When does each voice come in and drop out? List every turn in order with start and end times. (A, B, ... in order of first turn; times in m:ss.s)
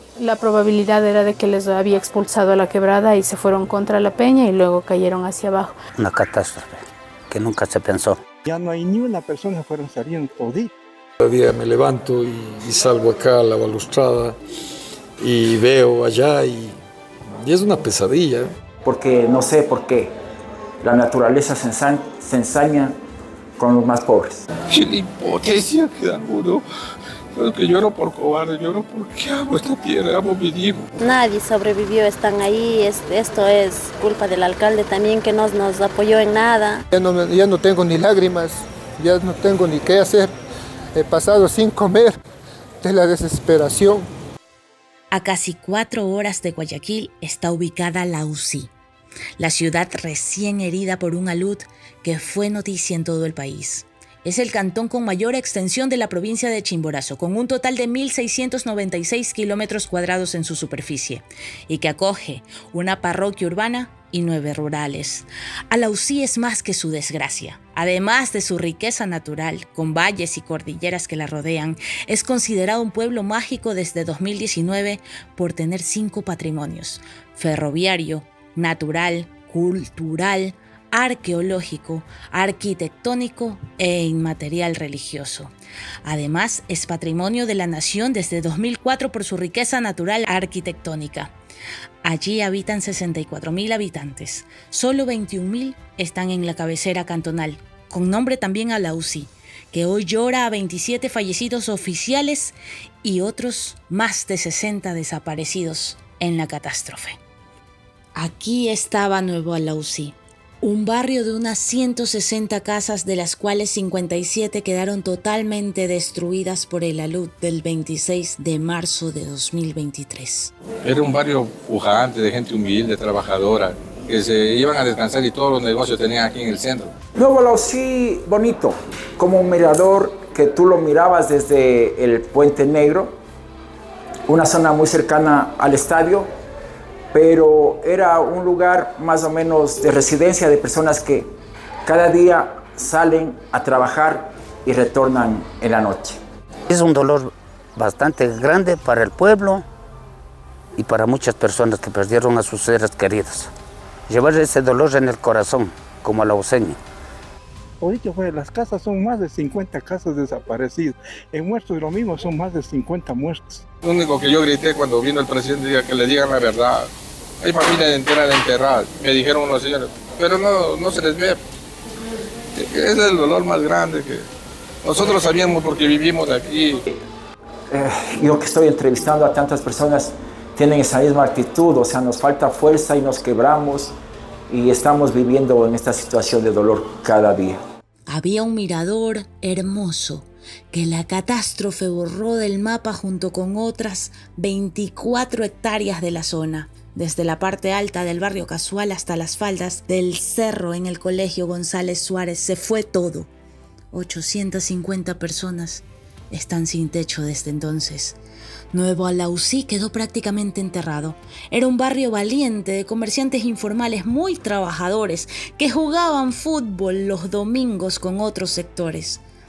0:00.2-0:05.8 A
0:06.0-0:08.2 B
0:08.4-0:10.7 C
0:11.2-0:14.4 D
0:15.2-0:16.8 D
0:17.3-0:18.5 D
0:18.8-0:20.1 E
0:20.8-0:23.0 E
0:23.6-0:24.4 E
0:24.7-0:26.6 F
0:27.3-0:30.8 F
0:31.0-0:36.8 G
0:36.9-0:40.3 H
0:40.9-0:42.2 H
0:42.8-0:44.1 H
0:45.1-0:48.7 I
0:49.4-1:25.5 I
1:26.0-1:31.3 I
1:32.0-1:47.2 I
1:48.1-2:00.5 I
2:00.8-2:06.9 F
2:07.1-2:13.2 E
2:14.3-2:16.3 E
2:17.1-2:21.3 E
2:21.8-2:26.2 E
2:26.7-2:29.6 B
2:30.8-2:33.5 B
2:34.1-2:36.8 B
2:37.8-2:43.6 C
2:43.8-2:46.9 F
2:47.4-2:51.4 F
2:52.6-2:54.3 F
2:54.8-2:56.8 F
2:57.7-3:03.9 E
3:04.5-3:07.6 E
3:08.1-3:23.3 I
3:23.9-3:28.2 I
3:28.7-3:39.2 I